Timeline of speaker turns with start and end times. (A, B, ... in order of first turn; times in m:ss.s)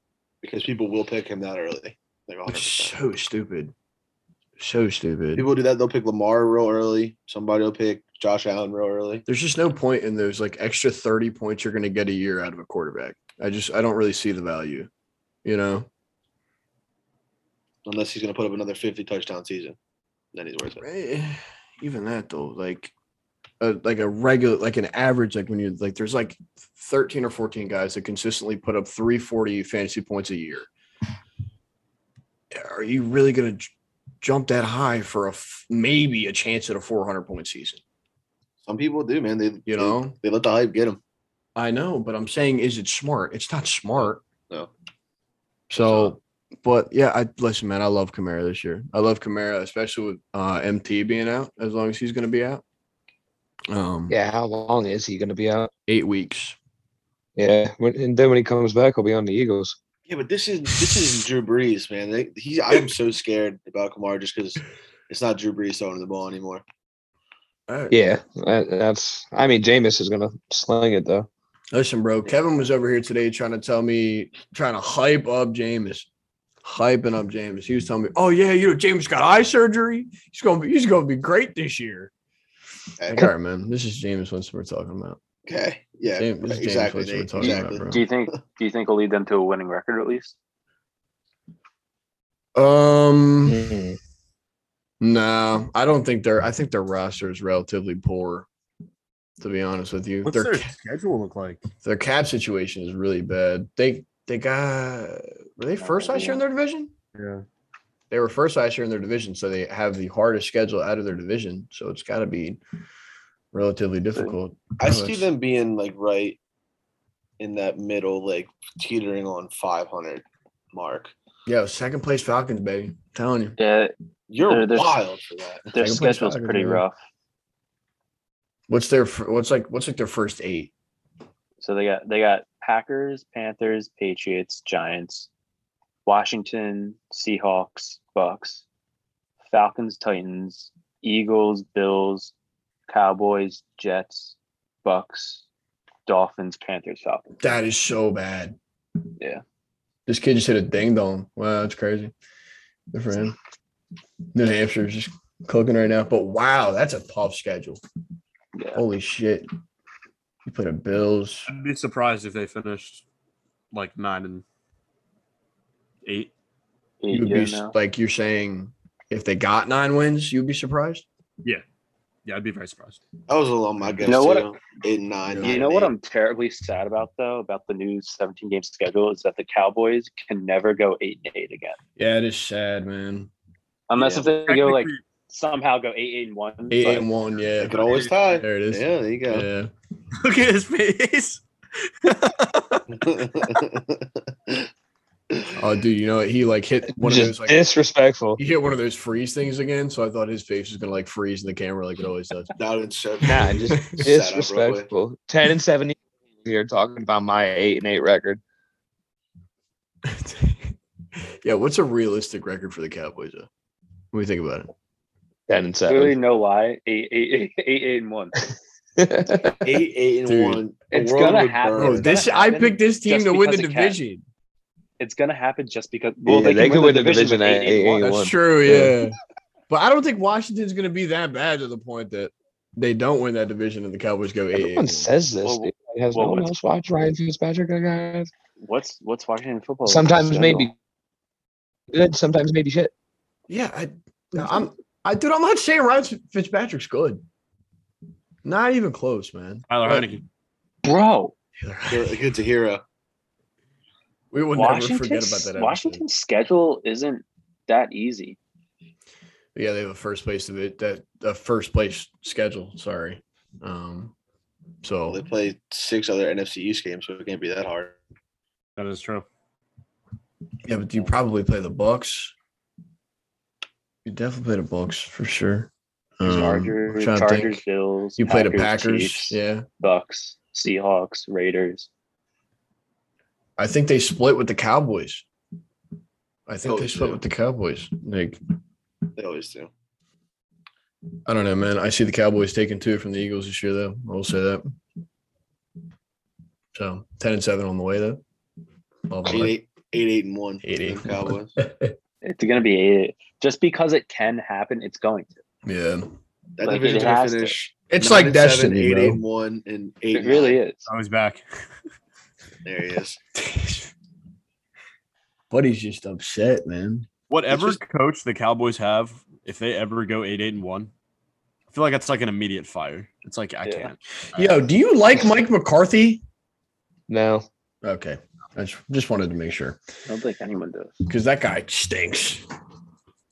0:00.4-0:03.0 A
0:02.5-0:03.7 B
0:04.6-0:05.5 B
0:05.4-0:09.2 A
0:09.3-0:14.9 B
0:15.4-0:15.9 B
0:17.8-0:19.8 A
0:20.3-0:20.8 A
0:20.8-0:22.9 B
0:23.6-0:30.7 B
0:32.5-0:37.8 B
0:38.6-0:41.0 A
0:39.7-0:40.1 B
0:41.6-0:44.2 B
0:44.0-0:44.7 A
0:45.7-0:52.6 B
0:53.7-0:54.2 B
0:54.1-0:55.7 C
0:55.9-0:56.6 B
0:57.4-0:59.8 C
1:00.1-1:06.6 A
1:07.7-1:08.0 B
1:07.9-1:11.3 C
1:11.7-1:16.1 B
1:16.6-1:22.1 B
1:23.0-1:23.3 A
1:23.1-1:25.2 B
1:25.4-1:27.9 A
1:26.2-1:28.0 B
1:27.4-1:30.3 D
1:32.5-1:33.6 B
1:33.4-1:34.0 C
1:35.0-1:38.5 B
1:39.4-1:40.7 B
1:40.2-1:41.6 E
1:41.8-1:46.9 B
1:45.8-1:46.4 D
1:47.1-1:47.4 E
1:48.1-1:52.6 B
1:53.5-1:55.3 B
1:54.8-1:56.4 A
1:57.4-2:01.1 A
2:01.4-2:03.6 B
2:03.6-2:05.0 D
2:04.3-2:05.7 A
2:05.7-2:06.9 D
2:05.8-2:06.8 B
2:08.7-2:10.7 B
2:11.6-2:15.3 D
2:16.0-2:18.6 D
2:19.4-2:22.3 D
2:22.9-2:25.4 D
2:26.1-2:27.4 D
2:27.4-2:28.6 B
2:30.1-2:32.1 B
2:32.9-2:33.4 B
2:34.3-2:37.8 B
2:38.5-2:38.8 D
2:38.7-2:39.5 B
2:40.4-2:41.5 B
2:41.5-2:43.0 E
2:43.7-2:44.4 E
2:46.0-2:46.3 E
2:47.0-2:47.7 D
2:47.1-2:51.0 B
2:52.2-2:53.0 E
2:53.3-2:55.9 A
2:54.0-2:54.5 D
2:55.3-2:55.5 B
2:55.4-3:01.8 D
3:02.0-3:03.3 B
3:03.9-3:07.1 D
3:04.2-3:05.0 E
3:06.7-3:09.7 B
3:07.6-3:09.4 A
3:10.2-3:13.0 E
3:12.9-3:14.7 A
3:15.6-3:17.7 B
3:16.9-3:18.4 C
3:18.4-3:22.5 B
3:22.6-3:24.9 A
3:23.2-3:28.4 C
3:30.0-3:33.5 B
3:34.1-3:34.7 B
3:35.5-3:36.1 C
3:35.9-3:38.4 D
3:39.0-3:39.6 C
3:39.6-3:42.1 A
3:40.3-3:40.6 B
3:40.9-3:44.0 D
3:41.8-3:44.2 B
3:45.0-3:48.2 D
3:46.2-3:48.9 C
3:48.0-3:49.2 B
3:49.7-3:55.1 B
3:54.5-3:58.3 C
3:55.4-3:56.5 D
3:58.6-4:00.7 D
3:59.8-4:00.7 C
4:01.9-4:02.9 C
4:03.5-4:07.2 B
4:08.4-4:10.1 B
4:09.7-4:10.2 E
4:10.8-4:11.3 D
4:11.6-4:12.3 B
4:11.9-4:12.8 A
4:14.3-4:16.0 B
4:14.5-4:18.4 D
4:19.5-4:24.1 B
4:24.8-4:25.2 B
4:25.1-4:28.0 A
4:28.8-4:29.2 E
4:30.6-4:32.3 B
4:34.0-4:37.6 B
4:36.2-4:41.9 D
4:38.2-4:39.6 B
4:43.6-4:45.2 B
4:46.5-4:48.4 B
4:46.6-4:47.2 A
4:49.2-4:49.7 A
4:51.3-4:54.6 B
4:56.7-4:58.2 B
4:59.1-4:59.5 B
4:59.2-5:01.5 A
5:00.6-5:01.9 B
5:02.2-5:05.4 D
5:05.6-5:06.1 B
5:06.6-5:10.6 A
5:06.6-5:07.6 D
5:07.9-5:09.2 B
5:10.1-5:10.8 D
5:10.8-5:11.4 E
5:12.6-5:13.2 A
5:13.3-5:13.9 B
5:15.5-5:17.8 B
5:17.3-5:20.9 E
5:21.7-5:24.6 E
5:23.6-5:23.9 D
5:24.3-5:26.2 B
5:27.1-5:27.4 C
5:27.8-5:29.8 B
5:30.1-5:31.0 D
5:31.0-5:32.4 B